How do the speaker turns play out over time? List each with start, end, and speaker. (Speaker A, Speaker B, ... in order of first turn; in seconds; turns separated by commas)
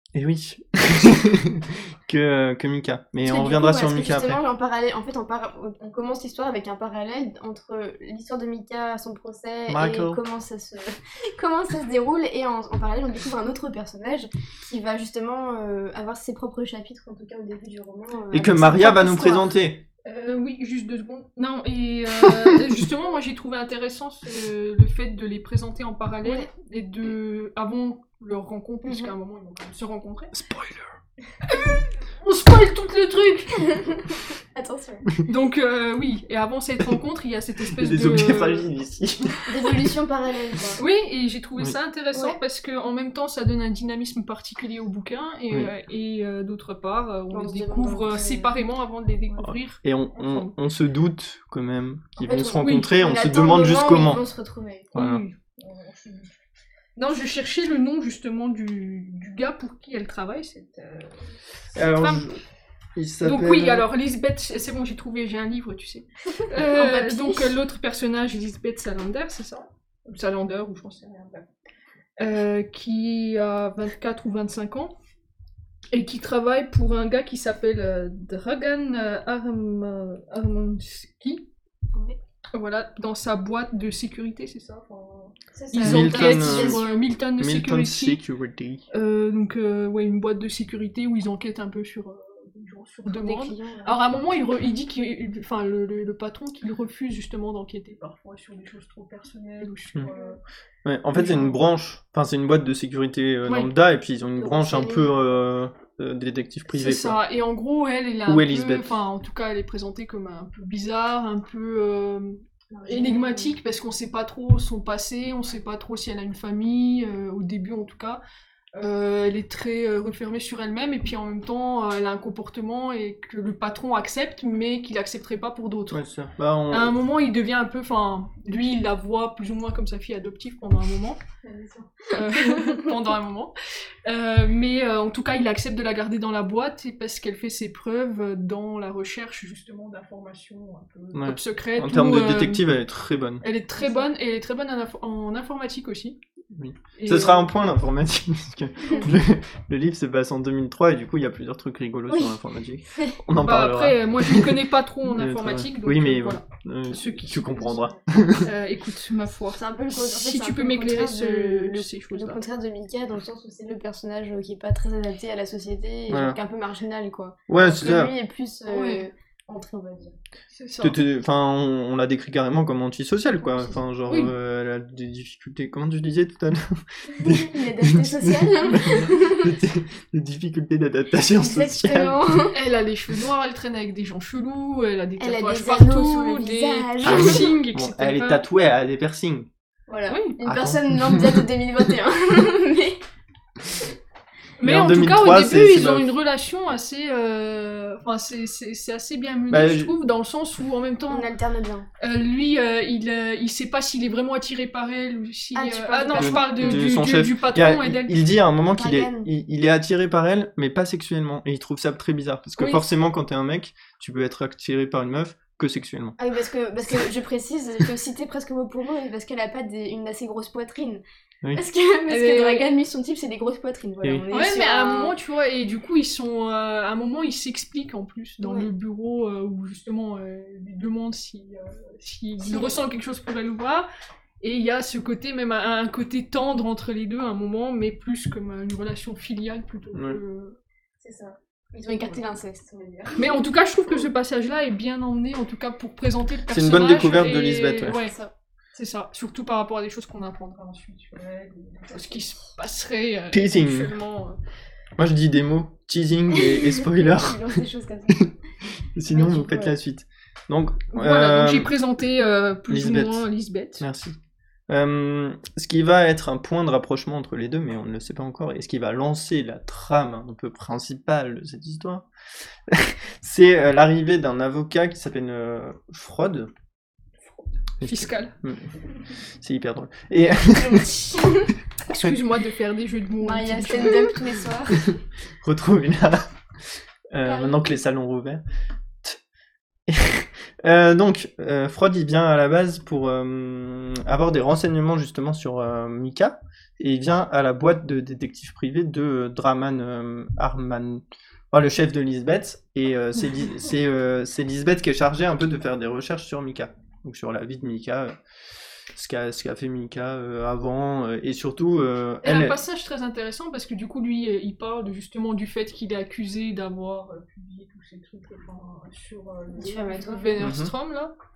Speaker A: 0.1-4.4, Speaker B: 3.2-19.4, Speaker A: 9.7-10.2, Speaker A: 18.3-19.8, Speaker C: 20.0-30.3, Speaker A: 22.2-22.5, Speaker B: 26.2-26.5, Speaker B: 28.8-29.1, Speaker A: 30.3-30.9, Speaker C: 31.4-33.9, Speaker B: 33.6-35.1, Speaker C: 35.2-38.7, Speaker A: 37.8-39.4, Speaker B: 39.5-40.8, Speaker C: 40.8-50.5, Speaker B: 42.1-42.4, Speaker B: 47.3-48.5, Speaker A: 49.4-54.2, Speaker B: 52.2-54.9, Speaker C: 52.6-52.9, Speaker C: 54.9-56.3, Speaker A: 54.9-55.2, Speaker C: 57.0-62.2, Speaker A: 61.7-62.4, Speaker A: 63.0-63.8, Speaker C: 63.2-71.5, Speaker B: 66.3-67.5, Speaker C: 72.2-74.9, Speaker C: 75.9-81.5, Speaker C: 82.5-88.2, Speaker B: 85.5-87.0, Speaker A: 85.8-86.8, Speaker A: 87.4-88.8, Speaker C: 88.9-100.4, Speaker B: 93.1-94.0, Speaker B: 100.1-100.3, Speaker A: 100.8-107.2, Speaker C: 101.1-101.5, Speaker C: 103.4-103.7, Speaker B: 104.4-105.1, Speaker C: 106.7-118.2, Speaker A: 108.2-108.9, Speaker B: 112.7-113.5, Speaker C: 118.7-126.0, Speaker A: 125.9-126.9, Speaker C: 126.7-131.2, Speaker B: 131.4-132.9, Speaker C: 132.1-133.5, Speaker C: 134.0-142.6, Speaker A: 141.1-143.4, Speaker C: 143.4-146.2, Speaker B: 143.8-144.1, Speaker A: 146.5-158.5, Speaker C: 147.0-147.5, Speaker B: 152.1-152.3, Speaker B: 152.9-153.2, Speaker C: 153.4-162.4, Speaker B: 159.5-170.1, Speaker A: 166.1-166.4, Speaker A: 167.5-168.1, Speaker C: 168.7-169.0, Speaker C: 170.5-171.0, Speaker A: 170.8-182.2, Speaker B: 177.1-179.4, Speaker B: 181.4-182.6, Speaker C: 182.5-188.4, Speaker B: 185.2-187.5, Speaker A: 187.0-189.5, Speaker B: 189.9-193.0, Speaker C: 190.1-190.3, Speaker A: 190.4-191.4, Speaker C: 194.6-201.3, Speaker A: 194.6-196.1, Speaker A: 199.5-199.9, Speaker B: 201.1-201.9, Speaker C: 202.0-208.3, Speaker B: 205.5-206.8, Speaker A: 206.1-216.2, Speaker B: 208.8-209.3, Speaker C: 212.6-212.8, Speaker B: 216.2-221.0, Speaker B: 221.5-225.1, Speaker C: 222.1-222.7, Speaker C: 224.3-233.9, Speaker B: 228.4-228.7, Speaker B: 232.4-232.8, Speaker C: 234.4-240.6, Speaker A: 239.9-240.2, Speaker B: 241.0-243.4, Speaker C: 243.2-248.1, Speaker A: 246.5-247.9, Speaker B: 247.9-248.3, Speaker C: 248.7-254.4, Speaker A: 253.3-253.9, Speaker A: 255.0-257.6, Speaker B: 256.4-258.3, Speaker A: 258.9-261.7, Speaker B: 259.1-259.8, Speaker C: 260.9-263.9, Speaker A: 262.7-263.3, Speaker A: 263.8-264.2, Speaker A: 264.7-272.1, Speaker A: 272.7-276.5, Speaker A: 277.8-280.9, Speaker C: 277.8-278.3, Speaker B: 280.6-281.5, Speaker C: 281.8-284.2, Speaker B: 283.2-284.9, Speaker A: 285.4-288.4, Speaker B: 287.2-287.6, Speaker A: 289.9-308.2, Speaker A: 308.9-312.6, Speaker C: 312.2-321.1, Speaker B: 319.5-320.4, Speaker A: 320.4-320.7